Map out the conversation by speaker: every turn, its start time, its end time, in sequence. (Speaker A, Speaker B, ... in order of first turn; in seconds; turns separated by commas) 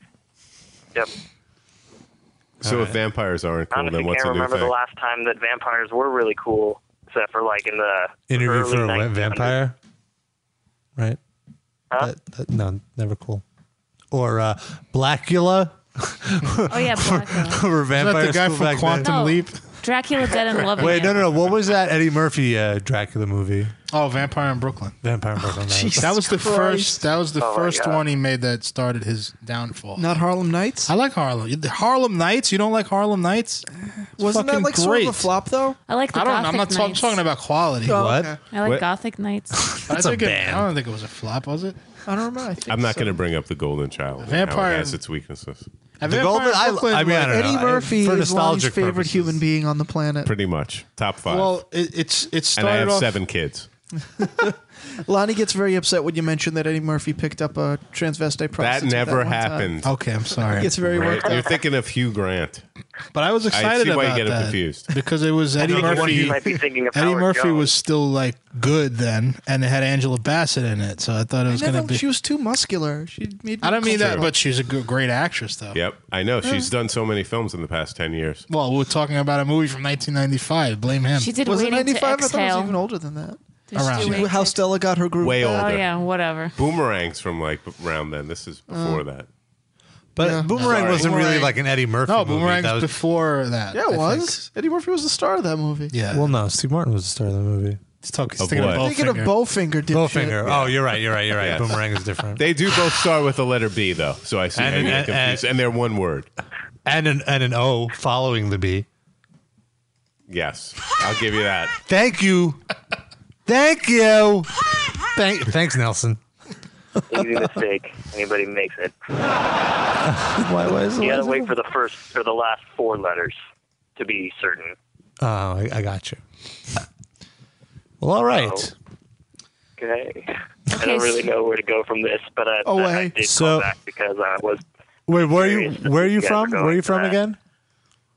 Speaker A: 2.6-3.0, Speaker B: 2.6-4.7, Speaker C: 3.7-9.6, Speaker A: 8.3-9.8, Speaker A: 12.0-13.4, Speaker A: 14.1-19.1, Speaker D: 16.7-17.6, Speaker E: 17.9-19.6, Speaker D: 19.0-21.3, Speaker A: 20.8-23.7, Speaker E: 23.9-25.0, Speaker A: 25.0-26.2, Speaker F: 25.5-27.1, Speaker E: 26.0-30.2, Speaker C: 27.4-28.0, Speaker F: 30.0-30.9, Speaker E: 30.9-33.6, Speaker E: 34.2-35.3, Speaker F: 34.2-35.8, Speaker D: 35.9-37.2, Speaker E: 36.1-38.0, Speaker F: 37.9-38.4, Speaker A: 37.9-38.3, Speaker D: 38.5-39.6, Speaker A: 39.5-40.7, Speaker E: 39.9-41.8, Speaker F: 42.1-43.2, Speaker B: 42.7-45.7, Speaker E: 44.2-45.0, Speaker E: 46.0-47.5, Speaker A: 46.0-49.4, Speaker F: 47.2-50.3, Speaker B: 50.2-51.6, Speaker E: 51.3-53.1, Speaker B: 52.6-53.7, Speaker F: 54.2-59.7, Speaker B: 58.6-60.0, Speaker E: 59.8-60.8, Speaker F: 60.6-61.5, Speaker B: 60.6-62.6, Speaker E: 63.1-72.0, Speaker B: 63.5-64.9, Speaker A: 65.6-66.6, Speaker C: 65.6-67.7, Speaker F: 71.5-74.3, Speaker E: 73.6-75.8, Speaker B: 73.9-74.2, Speaker B: 75.7-78.5, Speaker F: 76.4-76.7, Speaker E: 78.5-81.3, Speaker D: 81.2-82.8, Speaker F: 81.4-85.8, Speaker D: 83.7-84.6, Speaker E: 83.8-84.3, Speaker B: 85.2-85.9, Speaker D: 85.4-86.6, Speaker B: 86.6-89.3, Speaker F: 88.7-89.0, Speaker A: 90.2-92.9, Speaker F: 90.2-91.4, Speaker E: 90.5-91.5, Speaker B: 90.7-91.1, Speaker E: 92.1-94.4, Speaker F: 93.7-95.9, Speaker E: 95.9-96.3, Speaker A: 96.1-97.8, Speaker E: 98.0-99.3, Speaker B: 98.4-98.9, Speaker F: 98.6-100.6, Speaker A: 99.9-102.4, Speaker B: 101.3-101.8, Speaker B: 102.4-106.3, Speaker A: 104.6-105.4, Speaker A: 106.9-108.9, Speaker B: 110.3-111.8, Speaker A: 111.9-112.6, Speaker A: 113.5-114.5, Speaker A: 115.1-116.2, Speaker C: 117.1-119.0, Speaker A: 120.1-121.5, Speaker C: 121.0-123.4, Speaker C: 124.0-124.8, Speaker A: 125.2-126.2, Speaker A: 128.0-128.7, Speaker C: 128.3-128.7, Speaker C: 129.8-134.6, Speaker D: 130.7-131.2, Speaker F: 132.7-133.2, Speaker A: 133.2-133.7, Speaker A: 135.1-137.4, Speaker C: 135.2-137.2